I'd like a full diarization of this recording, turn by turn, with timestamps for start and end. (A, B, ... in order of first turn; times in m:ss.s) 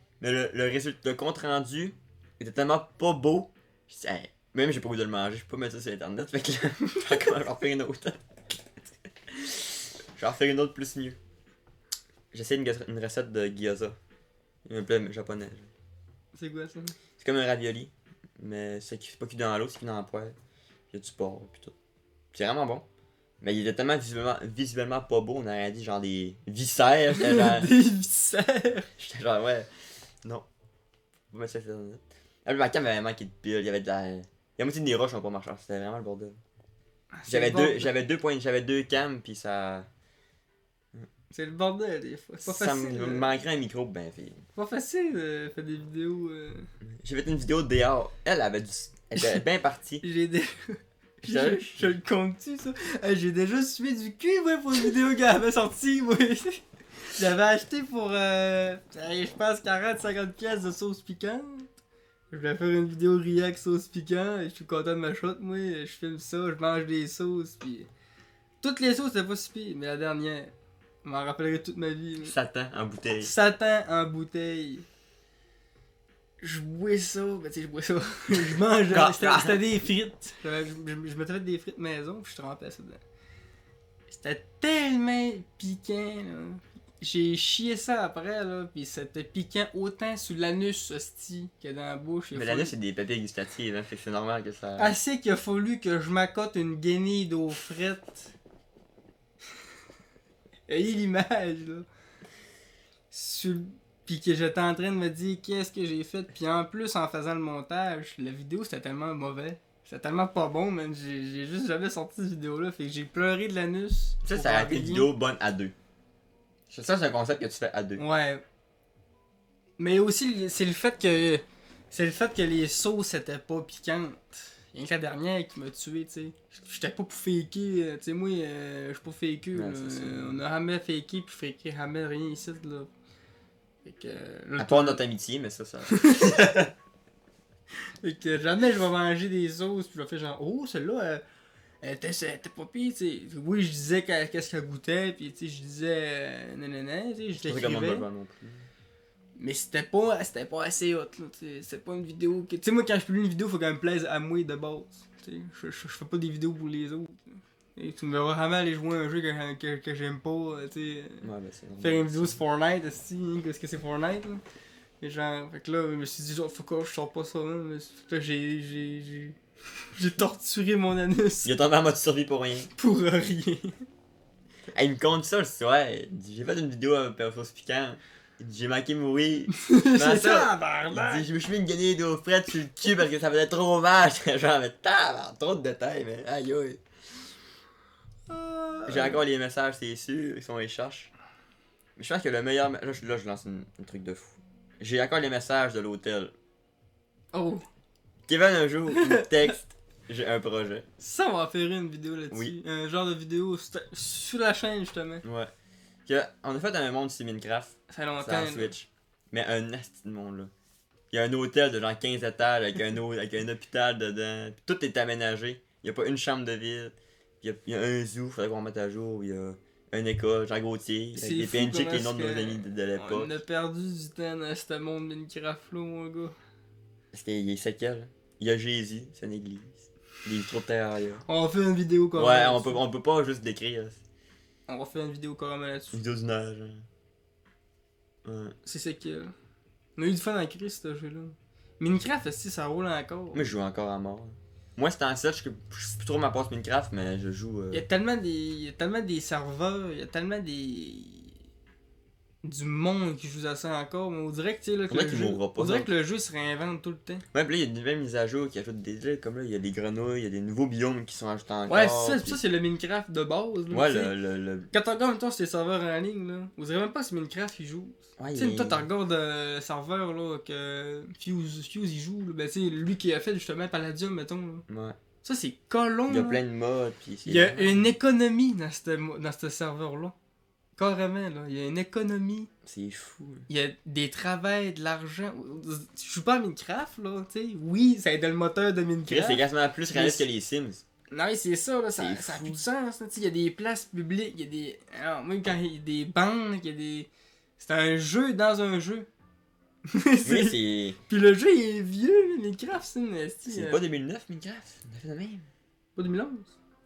0:00.2-0:08.2 A
0:09.3-0:11.2 A
0:12.3-0:14.0 A
0:14.6-0:15.7 A
0:16.3-0:17.0 B
0:17.2-0:20.4 A
0:20.9-0:21.7 A
0:22.3-0:22.8 A
0:23.4-0:27.7 A
0:27.2-0:28.9 B
0:29.0-0:29.7 A
0:31.3-0:36.4 A
0:37.1-0:37.9 B
0:37.3-0:39.9 A
0:41.3-0:43.3 B
0:42.4-0:44.4 A
0:44.6-0:46.7 B
0:46.8-0:50.0 A
0:50.0-1:01.7 B
0:51.2-0:52.0 A
1:02.3-1:07.9 B
1:08.6-1:10.5 B
1:11.0-1:12.3 B
1:12.2-1:13.3 A
1:13.2-1:14.8 B
1:16.4-1:23.0 B
1:18.3-1:19.6 A
1:24.1-1:32.7 B
1:32.3-1:35.0 A
1:34.8-1:38.3 B
1:40.7-1:41.8 B
1:43.1-1:55.1 B
1:54.2-1:55.7 A
1:56.7-1:58.0 A
1:58.0-1:58.4 B
1:59.8-2:12.9 B
2:09.5-2:10.4 A
2:13.8-2:15.0 B
2:14.6-2:16.7 A
2:15.9-2:16.6 B
2:18.0-2:21.2 B
2:21.8-2:28.0 B
2:27.4-2:28.7 A
2:29.4-2:41.3 B
2:41.2-2:42.4 A
2:41.8-2:44.4 B
2:45.0-2:49.4 B
2:49.9-2:51.5 B
2:51.4-2:52.7 A
2:52.8-2:53.8 B
2:54.7-3:06.8 A
2:59.5-3:01.3 B
3:08.3-3:09.2 B
3:08.9-3:11.1 A
3:12.0-3:16.3 A
3:17.3-3:17.6 B
3:18.3-3:20.8 A
3:18.9-3:19.6 B
3:21.0-3:25.2 B
3:25.2-3:25.5 A
3:26.0-3:30.5 A
3:27.9-3:28.7 B
3:31.1-3:43.3 A
3:41.2-3:46.3 B
3:47.1-3:51.2 A
3:51.2-3:52.8 B
3:52.2-3:54.0 A
3:54.7-3:56.0 B
3:55.9-3:56.8 A
3:58.2-3:58.5 A
3:58.6-3:59.3 B
4:00.0-4:03.5 B
4:03.3-4:07.8 A
4:07.7-4:11.3 B
4:12.4-4:17.2 B
4:14.9-4:15.9 A
4:17.3-4:22.4 A
4:21.7-4:24.1 B
4:23.7-4:24.7 A
4:24.7-4:34.6 B
4:28.2-4:28.8 A
4:34.7-4:35.0 A
4:35.2-4:36.4 B
4:36.1-4:37.9 A
4:37.2-4:40.1 B
4:40.8-4:42.5 B
4:42.6-4:43.4 A
4:43.5-4:50.2 B
4:49.1-4:50.8 A
4:51.1-4:59.1 B
4:52.0-4:52.6 A
4:59.9-5:00.6 B
5:00.2-5:01.0 A
5:01.1-5:03.8 B
5:03.5-5:05.5 A
5:06.0-5:06.5 B